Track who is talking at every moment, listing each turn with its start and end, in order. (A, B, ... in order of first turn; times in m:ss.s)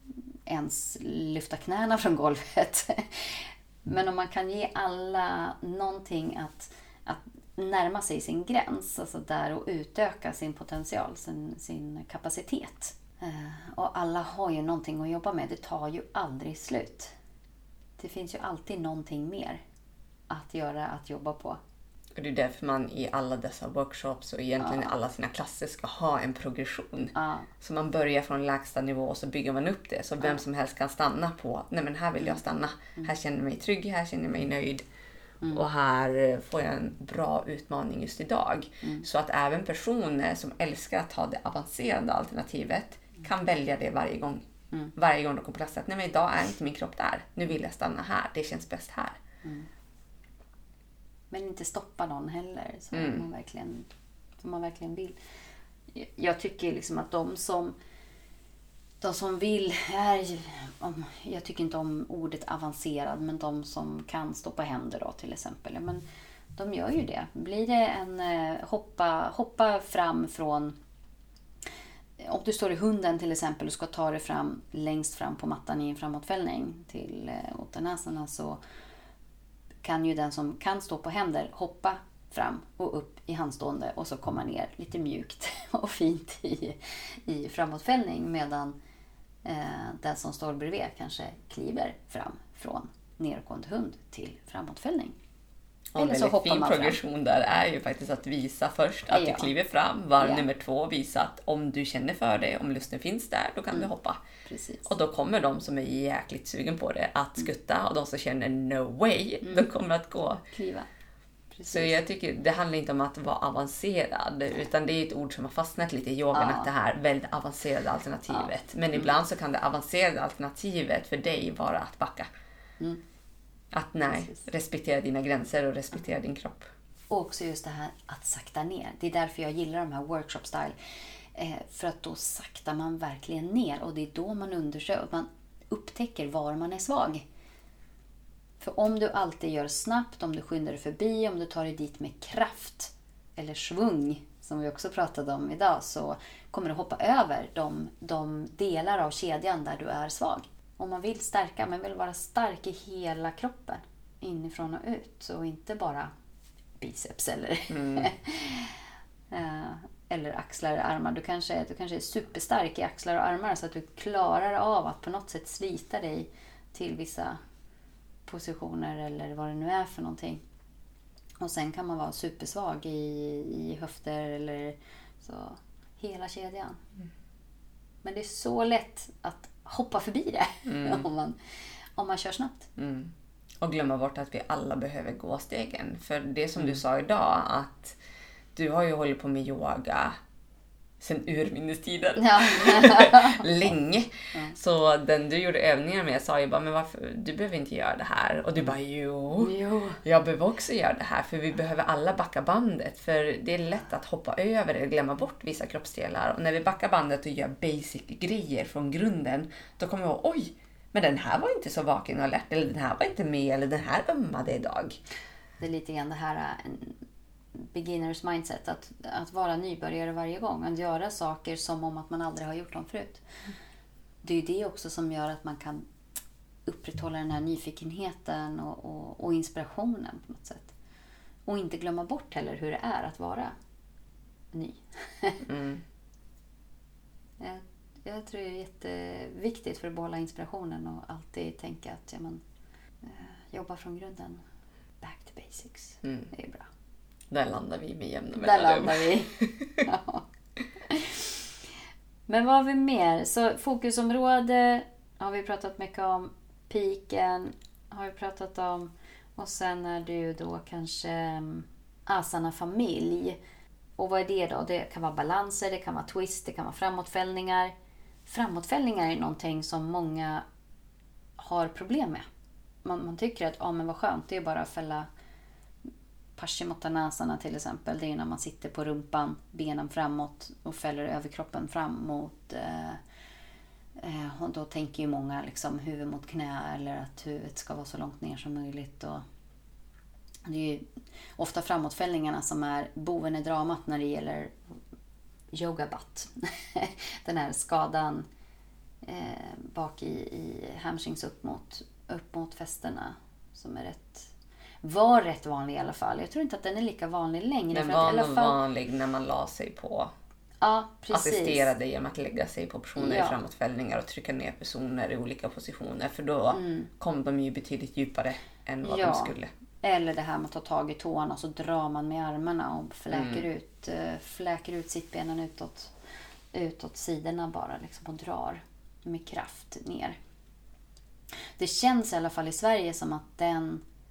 0:00.5-0:17.1 A
0:18.0-0:19.6 A
0:20.3-0:21.6 A
0:22.2-0:34.8 B
0:24.6-0:24.9 A
0:27.2-0:27.5 A
0:35.5-0:49.2 B
0:51.3-0:55.2 A
0:52.9-0:53.3 B
0:55.9-0:57.8 A
0:59.0-1:06.0 A
1:06.6-1:10.8 A
1:12.2-1:18.6 A
1:19.8-1:28.8 A
1:29.4-1:35.2 A
1:35.9-1:44.2 B
1:36.0-1:37.0 A
1:39.1-1:39.5 A
1:40.2-1:40.4 A
1:44.5-1:44.9 A
1:44.9-1:50.4 B
1:49.4-1:49.7 A
1:50.5-1:50.9 A
1:51.5-1:52.0 A
1:51.7-2:02.3 B
1:56.3-1:56.7 A
1:58.3-1:59.1 A
2:03.7-2:06.7 B
2:07.1-2:10.8 A
2:11.3-2:17.2 A
2:18.6-2:36.1 A
2:36.8-2:38.8 A
2:37.7-2:38.1 B
2:39.3-2:47.4 A
2:48.2-2:50.4 A
2:51.4-2:56.8 A
2:58.0-3:01.4 A
3:00.7-3:01.1 B
3:02.0-3:02.7 A
3:02.8-3:08.0 B
3:08.5-3:10.2 B
3:11.0-3:35.0 B
3:12.2-3:13.5 A
3:19.4-3:20.0 A
3:35.6-3:37.0 A
3:37.6-3:43.2 A
3:44.2-3:45.8 A
3:46.7-3:50.7 A
3:51.5-3:53.6 A
3:54.5-3:55.4 A
3:55.4-3:55.8 B
3:57.4-4:02.4 A
4:03.0-4:04.4 A
4:05.0-4:06.7 A
4:06.0-4:06.3 B
4:07.3-4:09.8 B
4:08.4-4:10.2 A
4:10.8-4:11.4 A
4:12.3-4:23.4 A
4:24.0-4:27.7 A
4:28.3-4:30.4 A
4:31.4-4:32.3 A
4:32.8-4:35.1 A
4:36.4-4:43.0 A
4:44.0-4:49.2 A
4:50.5-4:50.8 A
4:51.4-4:54.6 A
4:55.5-4:58.3 A
4:59.0-5:04.3 A
5:04.8-5:08.6 A
5:07.7-5:10.1 B
5:10.6-5:11.7 A
5:11.1-5:19.5 B
5:13.0-5:13.4 A
5:16.5-5:16.9 A
5:18.8-5:25.9 A
5:23.1-5:23.4 B
5:26.5-5:30.2 A
5:31.6-5:33.8 A